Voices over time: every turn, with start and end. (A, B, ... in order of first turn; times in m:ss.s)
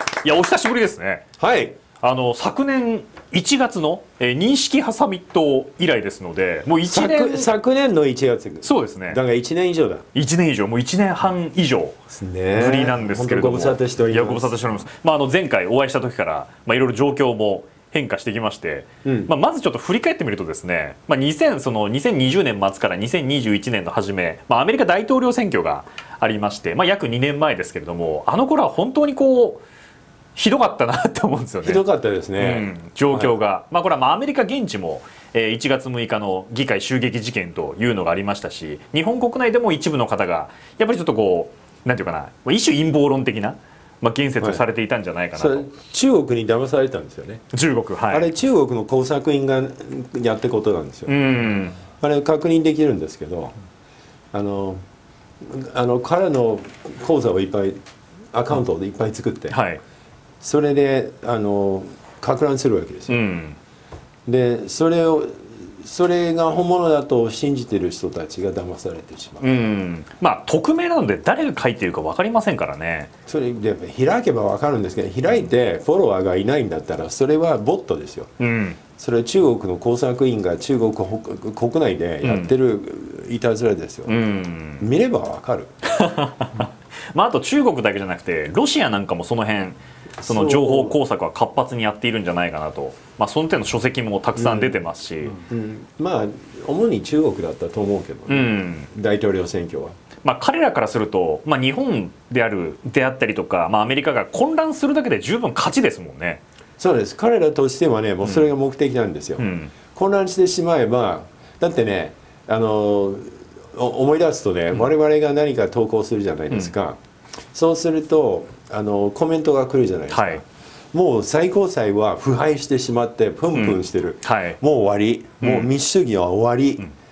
0:00.2-0:01.3 A
0:01.4-0:01.8 B
0:02.0-0:07.5 A
0:06.9-0:10.1 B
0:08.6-0:09.2 A
0:10.1-0:12.0 A
0:12.1-0:14.6 B
0:12.5-0:29.6 A
0:19.0-0:19.3 B
0:30.4-0:31.8 A
0:31.6-0:33.3 B
0:32.4-0:45.7 A
0:44.4-0:44.6 B
0:45.4-0:47.4 B
0:47.5-0:48.3 A
0:48.1-0:51.1 B
0:51.1-0:51.8 A
0:52.0-0:53.5 B
0:54.3-0:54.8 B
0:55.4-0:57.8 B
0:58.3-0:59.6 B
0:59.5-0:59.8 A
1:00.4-1:03.2 B
1:03.1-1:03.6 A
1:04.3-1:09.6 B
1:09.4-1:13.1 A
1:13.3-1:18.3 B
1:18.4-1:18.8 A
1:19.0-1:24.2 B
1:22.2-1:22.5 A
1:24.1-1:24.9 A
1:24.8-1:25.7 B
1:25.9-1:35.4 A
1:30.2-1:31.0 B
1:34.4-1:40.0 B
1:38.3-1:38.9 A
1:40.2-1:46.4 A
1:46.8-1:57.0 B
1:49.4-1:49.7 A
1:57.5-2:06.9 B
2:00.1-2:00.4 A
2:03.5-2:04.6 A
2:05.4-2:05.7 A